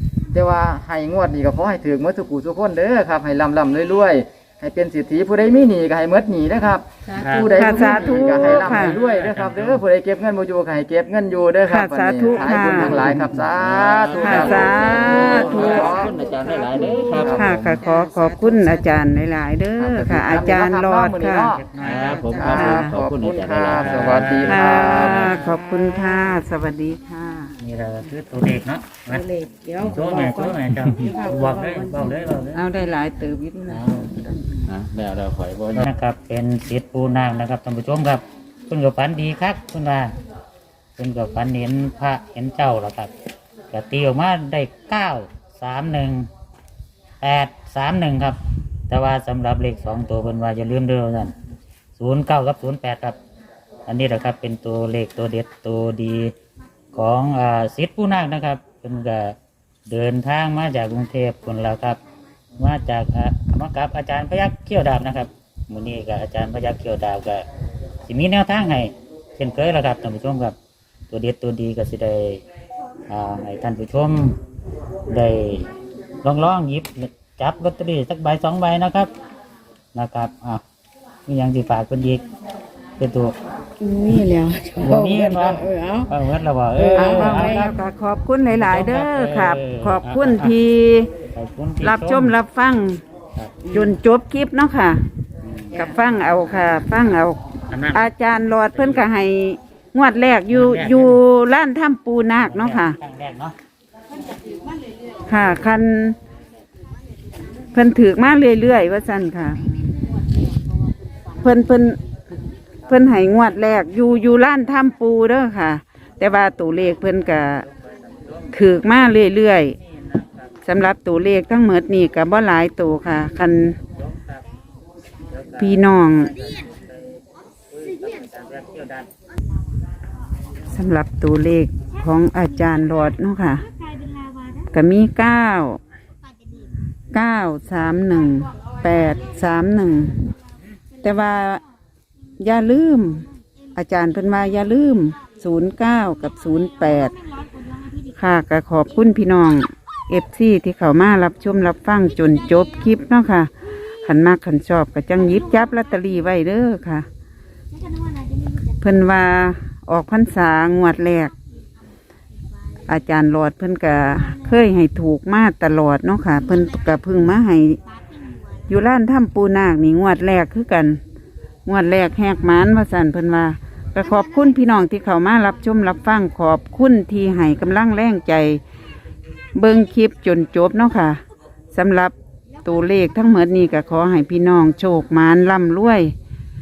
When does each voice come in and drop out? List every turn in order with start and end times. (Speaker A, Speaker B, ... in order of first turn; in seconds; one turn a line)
Speaker A: 0.3-16.1
Speaker B: 7.1-8.6
Speaker C: 7.2-7.6
Speaker D: 7.4-8.9
Speaker C: 8.5-9.8
Speaker D: 11.7-13.2
Speaker E: 12.4-17.8
Speaker D: 14.2-16.1
Speaker B: 14.7-19.1
Speaker C: 15.0-15.9
Speaker A: 17.1-17.5
Speaker D: 17.3-21.6
Speaker A: 19.8-21.6
Speaker C: 21.5-22.6
Speaker E: 21.8-25.4
Speaker B: 21.8-22.7
Speaker A: 22.4-25.1
Speaker D: 22.5-23.0
Speaker C: 23.7-25.5
Speaker D: 24.5-27.5
Speaker C: 27.6-29.2
Speaker B: 29.0-32.4
Speaker C: 29.8-32.6
Speaker D: 32.5-34.6
Speaker C: 33.7-34.1
Speaker E: 34.7-35.9
Speaker C: 35.7-40.1
Speaker C: 41.0-43.1
Speaker C: 43.7-46.3
Speaker C: 47.2-51.3
Speaker C: 52.0-53.2
Speaker C: 53.9-56.3
Speaker C: 56.9-59.4
Speaker C: 59.9-62.0
Speaker C: 62.6-67.5
Speaker C: 68.1-70.6
Speaker C: 71.1-72.4
Speaker C: 73.1-74.4
Speaker C: 75.1-75.7
Speaker C: 76.2-79.1
Speaker C: 79.9-80.6
Speaker C: 81.3-82.2
Speaker C: 83.0-83.4
Speaker B: 83.8-86.1
Speaker C: 84.8-87.8
Speaker B: 86.8-87.7
Speaker D: 87.0-91.1
Speaker C: 88.5-90.6
Speaker C: 91.3-92.3
Speaker D: 91.8-93.0
Speaker B: 93.6-93.9
Speaker D: 93.7-95.0
Speaker C: 95.5-95.7
Speaker D: 95.7-97.4
Speaker C: 97.7-99.1
Speaker D: 97.9-103.0
Speaker C: 100.5-101.2
Speaker C: 102.4-103.6
Speaker D: 105.3-106.2
Speaker D: 107.7-109.7
Speaker D: 111.4-112.0
Speaker D: 112.9-117.7
Speaker C: 118.1-118.5
Speaker D: 118.5-119.8
Speaker C: 119.9-120.5
Speaker D: 120.6-123.8
Speaker C: 124.0-124.4
Speaker C: 125.3-129.1
Speaker D: 125.6-126.3
Speaker D: 130.7-133.7
Speaker D: 134.7-135.8
Speaker D: 137.1-140.3
Speaker D: 141.0-141.6
Speaker D: 142.4-147.1
Speaker D: 148.1-153.5
Speaker D: 154.0-157.1
Speaker D: 158.8-161.3
Speaker D: 162.9-167.8
Speaker D: 168.7-171.0
Speaker D: 171.7-178.6
Speaker D: 179.6-181.2
Speaker D: 181.7-186.1